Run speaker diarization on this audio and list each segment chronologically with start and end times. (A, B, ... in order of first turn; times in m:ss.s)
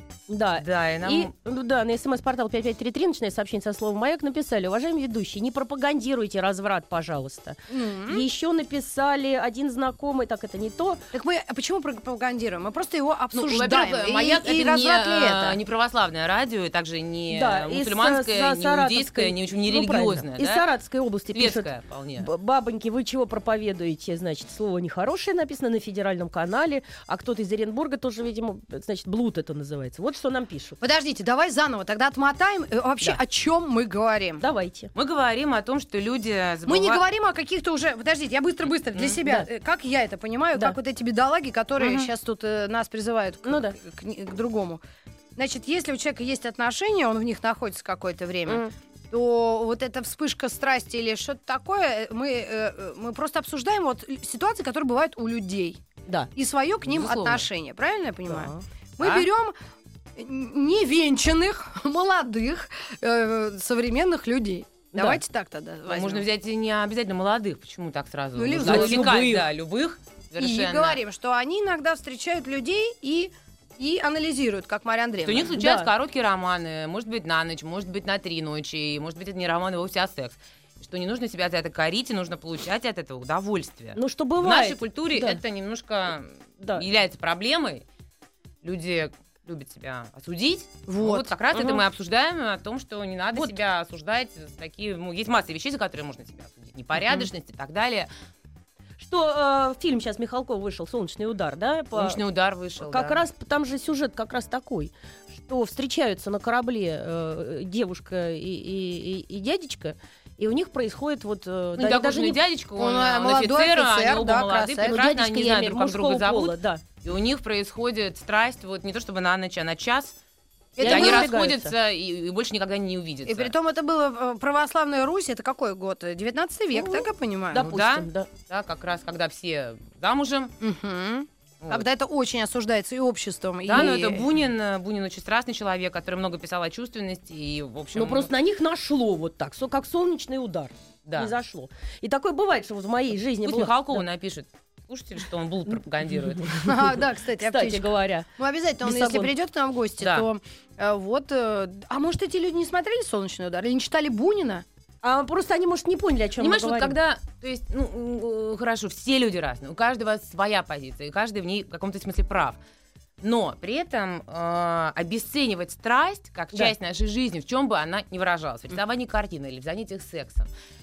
0:00.3-0:11.0 A
0:00.6-0:01.3 B
0:07.7-0:08.2 C
0:11.1-0:15.6 C
0:13.3-0:20.6 B
0:17.3-0:30.8 A
0:21.3-0:22.3 B
0:30.8-0:34.4 C
0:34.4-0:34.9 A
0:34.9-0:37.0 B
0:36.7-0:44.8 C
0:38.9-0:39.2 B
0:41.8-0:42.1 B
0:43.4-0:43.8 A
0:45.4-0:55.8 C
0:48.5-0:48.7 A
0:56.3-0:59.5 C
0:56.8-0:57.5 B
0:58.3-0:58.6 A
0:59.0-0:59.3 B
1:00.2-1:06.2 C
1:04.9-1:05.2 A
1:05.9-1:11.0 B
1:08.4-1:09.2 C
1:08.6-1:09.5 A
1:10.4-1:15.5 C
1:15.2-1:27.8 B
1:15.6-1:15.9 A
1:23.9-1:25.4 A
1:28.6-1:38.1 B
1:30.9-1:31.3 C
1:31.5-1:31.8 A
1:39.0-1:42.2 A
1:41.9-1:43.2 B
1:42.8-1:52.4 A
1:51.8-2:00.1 B
1:52.8-1:55.0 C
1:54.8-1:56.8 A
2:00.8-2:01.3 C
2:00.8-2:03.5 B
2:00.8-2:01.7 A
2:03.2-2:07.7 C
2:06.7-2:08.3 A
2:07.6-2:10.5 B
2:10.6-2:14.2 C
2:13.6-2:18.3 B
2:17.9-2:24.0 A
2:21.0-2:21.3 B
2:23.4-2:26.6 B
2:26.4-2:26.7 A
2:26.6-2:34.6 C
2:27.4-2:28.3 A
2:28.8-2:29.3 A
2:30.0-2:30.3 B
2:35.0-2:37.0 A
2:36.4-2:42.6 B
2:43.2-2:50.5 B